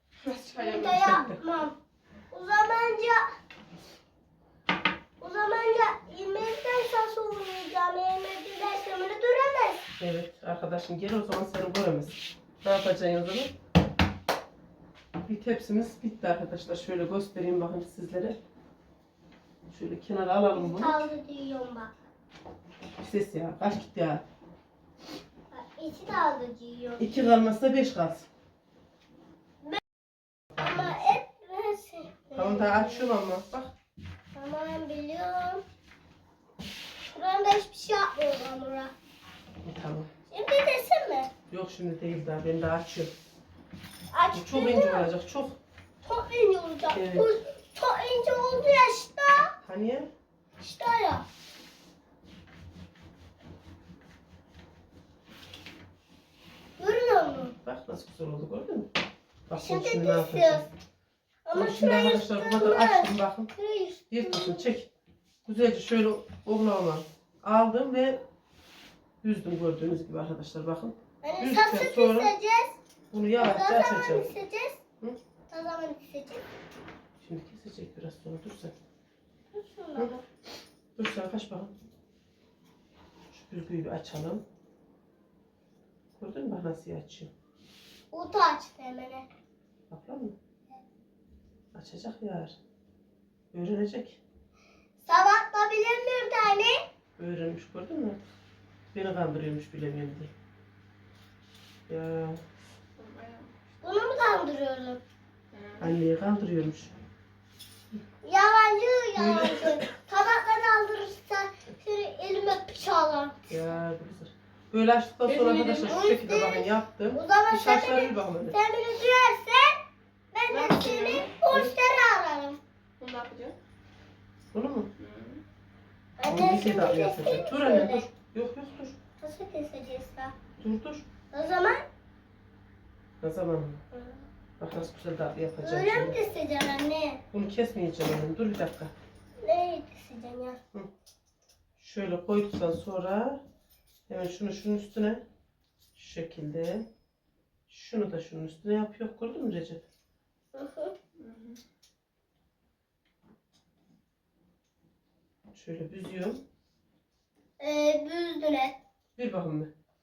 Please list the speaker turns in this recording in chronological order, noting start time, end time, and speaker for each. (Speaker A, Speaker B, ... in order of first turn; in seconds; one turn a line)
Speaker A: 0.2-1.2
Speaker B: 0.6-1.8
Speaker C: 1.0-1.4
Speaker B: 2.3-3.2
Speaker B: 5.2-9.9
Speaker C: 10.0-13.5
Speaker C: 15.2-18.4
Speaker C: 19.7-21.0
Speaker B: 20.5-21.9
Speaker C: 23.0-24.2
Speaker B: 25.5-27.0
Speaker C: 27.0-28.3
Speaker B: 30.6-33.1
Speaker C: 30.6-31.0
Speaker C: 32.4-33.7
Speaker B: 34.3-35.6
Speaker B: 37.0-38.9
Speaker C: 39.6-40.1
Speaker B: 40.3-41.3
Speaker C: 41.5-43.1
Speaker B: 44.1-45.1
Speaker C: 44.3-45.6
Speaker B: 46.0-49.5
Speaker C: 46.9-47.3
Speaker C: 49.6-50.1
Speaker B: 50.6-51.2
Speaker B: 56.8-57.5
Speaker C: 57.6-58.9
Speaker C: 59.5-60.7
Speaker B: 59.5-60.6
Speaker B: 61.5-64.7
Speaker C: 61.5-63.5
Speaker C: 64.1-64.9
Speaker C: 65.5-68.2
Speaker C: 69.2-72.3
Speaker B: 71.2-72.8
Speaker C: 73.1-74.3
Speaker B: 73.4-74.8
Speaker B: 75.5-76.5
Speaker C: 77.2-78.7
Speaker B: 79.5-80.2
Speaker C: 81.0-81.7
Speaker C: 83.3-84.4
Speaker C: 86.2-87.3
Speaker B: 88.1-89.3
Speaker C: 89.9-90.4
Speaker C: 91.7-92.6
Speaker C: 93.5-94.2
Speaker B: 95.0-96.8
Speaker C: 97.2-98.2
Speaker C: 98.9-100.3
Speaker C: 101.9-102.4
Speaker A: 103.0-103.6
Speaker B: 103.8-105.0
Speaker A: 105.5-106.0
Speaker C: 105.8-106.9
Speaker B: 108.2-113.5
Speaker C: 109.2-109.9
Speaker C: 113.5-118.6
Speaker A: 115.2-116.1
Speaker B: 115.9-119.8
Speaker B: 120.3-122.6
Speaker A: 120.5-121.7
Speaker A: 123.0-123.6
Speaker C: 124.5-124.9
Speaker A: 125.0-125.4
Speaker B: 126.2-128.1
Speaker C: 126.3-129.0
Speaker B: 129.2-130.3
Speaker C: 130.6-131.1
Speaker B: 131.3-131.8
Speaker C: 133.2-133.8
Speaker B: 133.9-134.2
Speaker C: 134.6-136.2
Speaker B: 135.6-137.2
Speaker C: 137.3-138.9
Speaker B: 139.4-140.6
Speaker C: 141.8-143.4
Speaker C: 144.1-145.2
Speaker C: 145.9-146.9
Speaker C: 147.7-149.8
Speaker B: 150.5-150.9
Speaker A: 151.2-151.6
Speaker C: 155.5-156.4
Speaker B: 157.6-158.8
Speaker C: 159.2-159.7